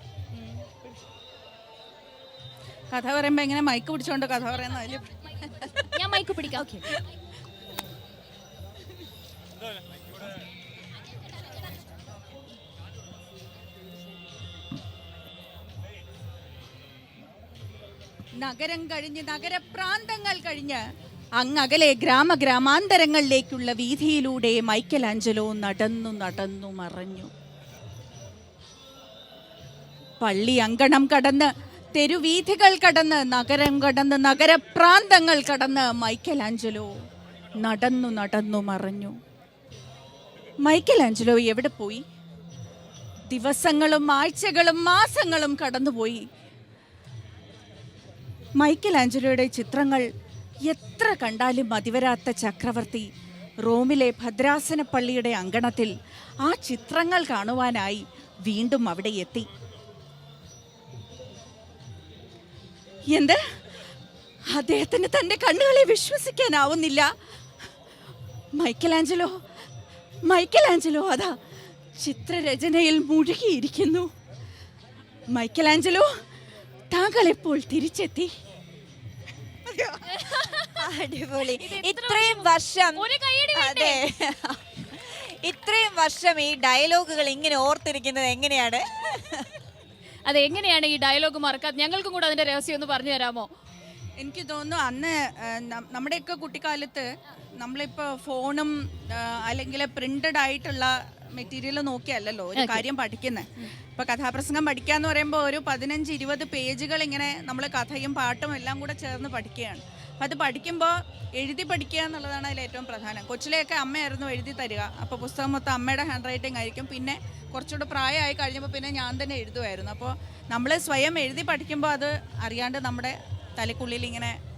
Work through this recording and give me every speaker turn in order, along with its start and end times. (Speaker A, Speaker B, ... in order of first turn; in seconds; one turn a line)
Speaker A: 2.9-5.9
Speaker B: 5.9-6.8
Speaker A: 18.4-20.8
Speaker A: 21.4-27.3
Speaker A: 30.2-36.9
Speaker A: 37.6-39.1
Speaker A: 40.6-42.0
Speaker A: 43.3-46.2
Speaker A: 48.6-50.1
Speaker A: 50.7-53.1
Speaker A: 53.6-55.9
Speaker A: 56.5-59.5
Speaker A: 63.1-63.4
Speaker A: 64.5-67.1
Speaker A: 68.6-69.3
Speaker A: 70.3-71.3
Speaker A: 72.0-74.1
Speaker A: 75.3-76.1
Speaker A: 76.9-78.3
Speaker B: 80.0-80.9
Speaker C: 80.6-83.0
Speaker B: 81.5-84.0
Speaker C: 83.5-89.5
Speaker B: 90.2-93.5
Speaker A: 94.2-97.1
Speaker A: 97.6-124.4
Speaker B: 102.6-102.8